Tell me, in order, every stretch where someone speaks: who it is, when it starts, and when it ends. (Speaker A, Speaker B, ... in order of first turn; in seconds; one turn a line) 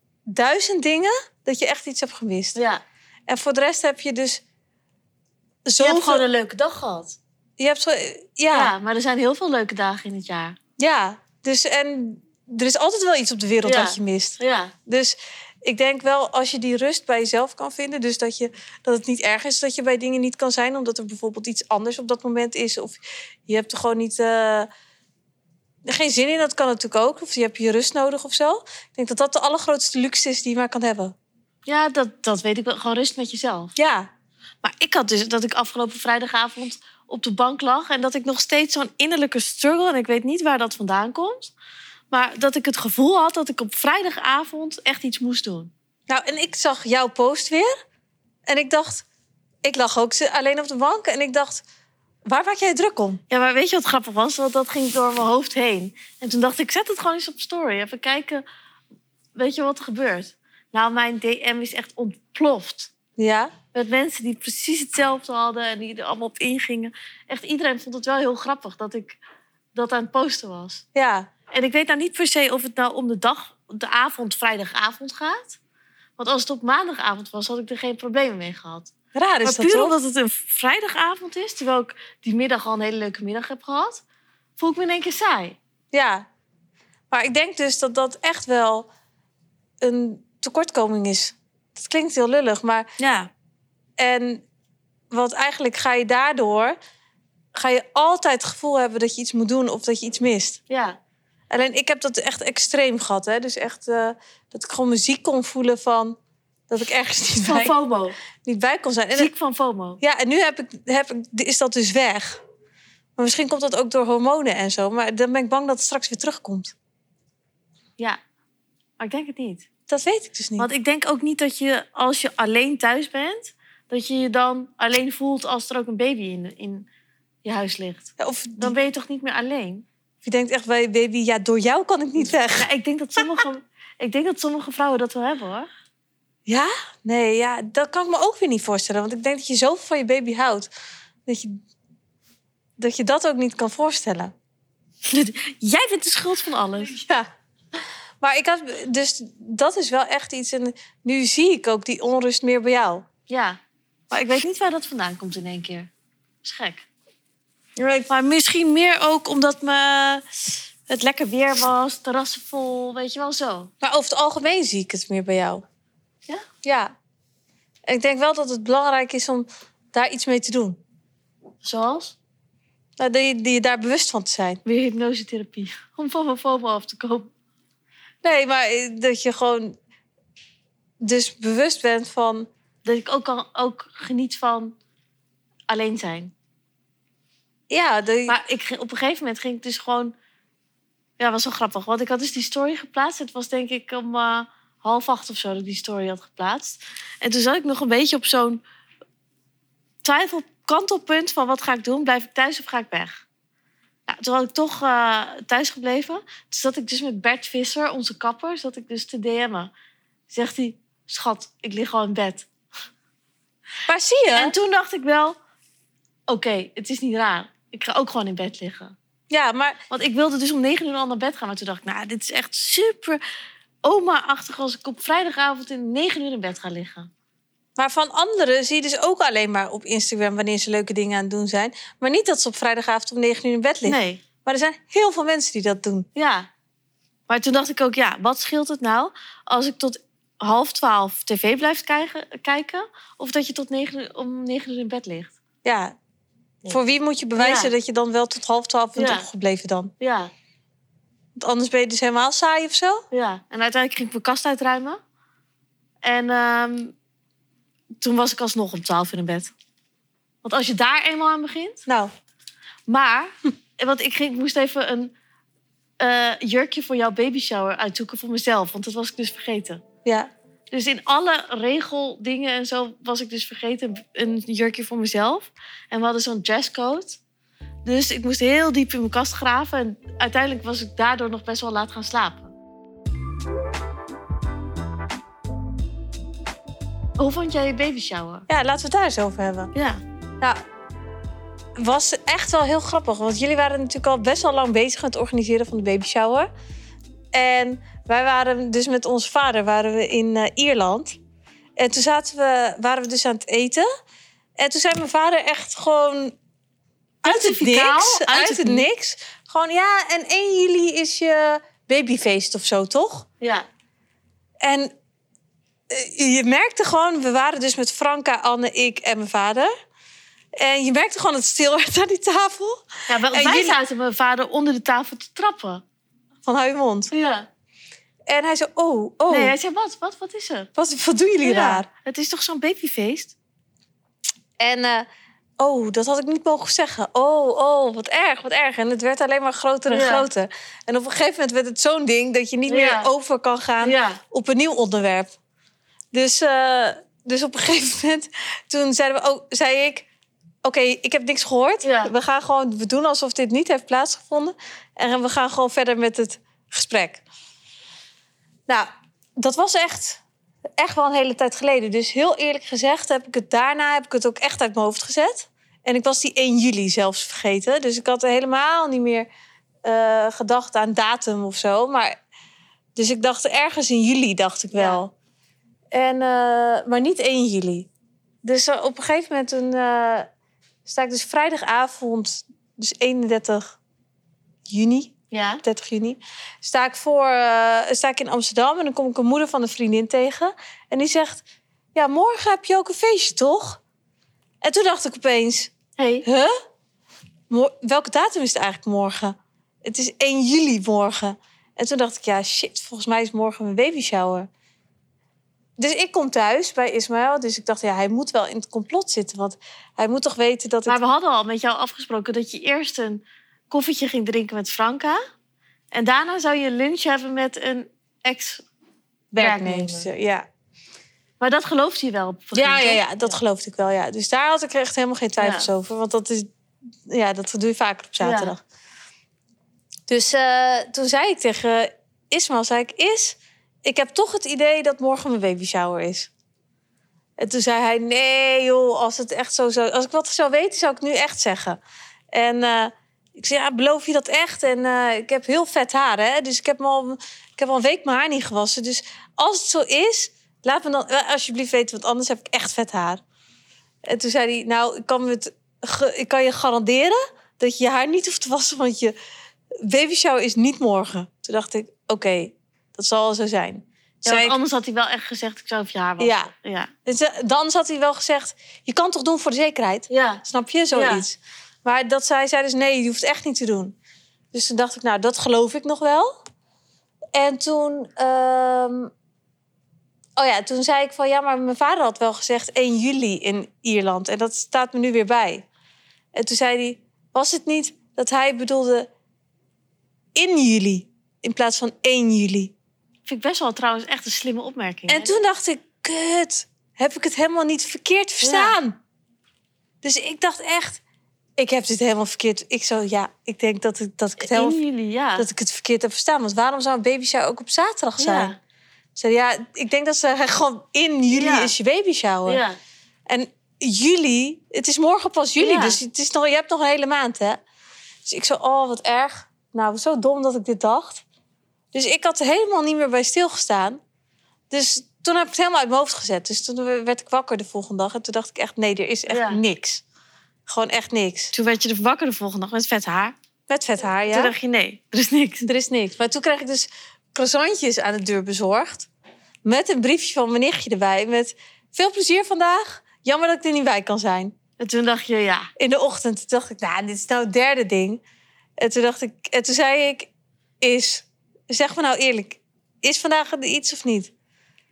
Speaker A: 0.3-2.6
Speaker B: 2.5-2.8
Speaker A: 3.3-4.4
Speaker A: 5.7-6.3
Speaker B: 5.8-7.2
Speaker A: 7.6-8.7
Speaker B: 8.5-10.6
Speaker A: 10.8-24.7
Speaker B: 13.6-14.7
Speaker A: 25.9-31.1
Speaker B: 31.7-33.8
Speaker A: 33.8-34.1
Speaker B: 34.6-41.5
Speaker B: 42.1-45.7
Speaker A: 46.1-47.7
Speaker A: 48.5-49.0
Speaker A: 49.6-51.6
Speaker A: 52.3-53.2
Speaker B: 53.3-58.4
Speaker B: 59.4-62.9
Speaker A: 63.2-63.5
Speaker B: 63.7-69.2
Speaker B: 69.8-70.8
Speaker A: 71.0-71.3
Speaker B: 71.5-75.6
Speaker B: 76.2-78.9
Speaker A: 79.1-80.0
Speaker B: 79.4-84.0
Speaker B: 84.6-85.6
Speaker A: 85.9-86.3
Speaker A: 87.1-88.9
Speaker A: 89.8-93.1
Speaker A: 94.0-94.4
Speaker A: 95.1-96.8
Speaker A: 97.5-100.6
Speaker B: 100.7-101.0
Speaker A: 101.5-106.2
Speaker A: 106.7-107.7
Speaker B: 107.4-108.2
Speaker A: 108.4-109.3
Speaker B: 109.2-110.0
Speaker A: 110.0-112.4
Speaker A: 113.2-116.8
Speaker B: 119.0-119.7
Speaker A: 119.9-120.7
Speaker B: 120.6-126.9
Speaker B: 127.4-129.8
Speaker A: 128.2-128.8
Speaker A: 130.2-133.2
Speaker B: 132.5-135.7
Speaker A: 136.5-140.7
Speaker A: 141.3-141.6
Speaker A: 142.8-144.3
Speaker B: 145.1-147.0
Speaker A: 146.9-147.3
Speaker A: 148.2-153.1
Speaker B: 153.3-153.6
Speaker B: 154.1-155.9
Speaker B: 156.4-156.9
Speaker A: 157.8-158.1
Speaker B: 158.1-160.2
Speaker B: 160.9-163.7
Speaker A: 163.8-165.6
Speaker A: 166.6-166.9
Speaker A: 167.9-170.8
Speaker B: 171.6-172.2
Speaker A: 173.0-174.6
Speaker B: 174.7-177.3
Speaker A: 178.2-179.8
Speaker A: 181.0-182.5
Speaker B: 182.8-184.7
Speaker B: 185.7-186.3
Speaker A: 187.7-188.3
Speaker B: 188.3-190.1
Speaker B: 191.2-198.6
Speaker B: 200.0-203.2
Speaker B: 204.1-209.7
Speaker B: 210.3-212.5
Speaker A: 213.9-214.6
Speaker B: 214.3-215.4
Speaker B: 216.3-218.9
Speaker A: 219.3-219.8
Speaker B: 219.9-223.2
Speaker B: 223.8-227.1
Speaker A: 227.8-236.1
Speaker B: 233.8-234.2
Speaker B: 236.2-236.5
Speaker B: 237.3-245.3
Speaker A: 245.6-246.0
Speaker A: 246.7-249.9
Speaker B: 247.4-247.7
Speaker B: 249.0-249.3
Speaker B: 250.0-250.3
Speaker A: 251.4-253.0
Speaker B: 253.1-255.0
Speaker B: 256.0-256.9
Speaker B: 258.0-259.5
Speaker B: 260.4-261.9
Speaker A: 261.9-262.1
Speaker B: 262.9-265.1
Speaker B: 266.0-269.8
Speaker A: 270.1-270.3
Speaker B: 270.7-277.2
Speaker B: 277.9-282.5
Speaker B: 287.2-288.5
Speaker A: 288.5-289.7
Speaker B: 289.7-290.0
Speaker A: 291.8-296.5
Speaker A: 297.3-301.2
Speaker A: 301.8-303.9
Speaker A: 304.6-306.3
Speaker B: 307.2-308.9
Speaker A: 307.2-313.3
Speaker A: 314.6-314.9
Speaker A: 315.9-319.7
Speaker A: 320.6-323.8
Speaker B: 323.1-325.8
Speaker A: 326.4-327.1
Speaker B: 327.1-327.5
Speaker A: 328.3-329.6
Speaker B: 329.3-330.7
Speaker A: 330.8-331.9
Speaker B: 331.4-333.4
Speaker A: 334.6-335.1
Speaker A: 335.6-345.3
Speaker B: 339.9-340.3
Speaker B: 342.7-343.1
Speaker B: 343.8-344.2
Speaker A: 346.1-350.1
Speaker A: 350.6-357.2
Speaker B: 351.8-352.1
Speaker A: 358.7-360.2
Speaker A: 360.8-369.3
Speaker A: 369.8-372.2
Speaker A: 373.0-375.1
Speaker B: 374.7-375.0
Speaker A: 375.9-377.9
Speaker A: 378.4-380.3
Speaker A: 380.9-383.8
Speaker A: 384.7-391.4
Speaker B: 385.3-385.6
Speaker A: 391.9-393.8
Speaker A: 394.6-395.7
Speaker B: 396.0-396.3
Speaker A: 396.2-396.5
Speaker A: 397.5-404.5
Speaker A: 405.8-411.0
Speaker B: 410.9-415.2
Speaker B: 415.9-418.6
Speaker A: 419.3-420.5
Speaker B: 419.4-420.1
Speaker B: 421.4-423.4
Speaker A: 422.5-426.5
Speaker B: 425.4-425.7
Speaker A: 427.1-428.6
Speaker B: 428.2-428.5
Speaker A: 430.1-436.3
Speaker A: 437.4-441.8
Speaker A: 442.3-453.2
Speaker A: 454.1-459.1
Speaker A: 459.8-464.6
Speaker B: 464.2-466.9
Speaker A: 466.2-466.5
Speaker A: 467.1-473.9
Speaker B: 470.1-471.2
Speaker A: 474.5-476.3
Speaker A: 477.3-479.1
Speaker A: 480.4-485.6
Speaker A: 486.4-489.1
Speaker A: 490.4-492.7
Speaker B: 493.3-495.4
Speaker A: 495.1-499.0
Speaker B: 498.4-498.8
Speaker A: 500.0-501.0
Speaker A: 501.6-504.8
Speaker B: 504.4-505.5
Speaker A: 505.4-508.5
Speaker B: 508.2-508.6
Speaker A: 509.1-512.6
Speaker B: 511.3-511.7
Speaker B: 512.5-512.8
Speaker A: 513.3-517.6
Speaker B: 515.6-516.0
Speaker A: 518.2-521.2
Speaker A: 521.9-524.0
Speaker A: 524.7-530.0
Speaker B: 529.3-529.6
Speaker A: 530.7-531.5
Speaker B: 531.5-533.4
Speaker A: 533.7-534.5
Speaker B: 534.3-535.7
Speaker A: 535.7-539.1
Speaker A: 539.6-544.5
Speaker B: 544.8-545.7
Speaker A: 545.8-548.2
Speaker A: 548.8-550.3
Speaker A: 550.8-554.3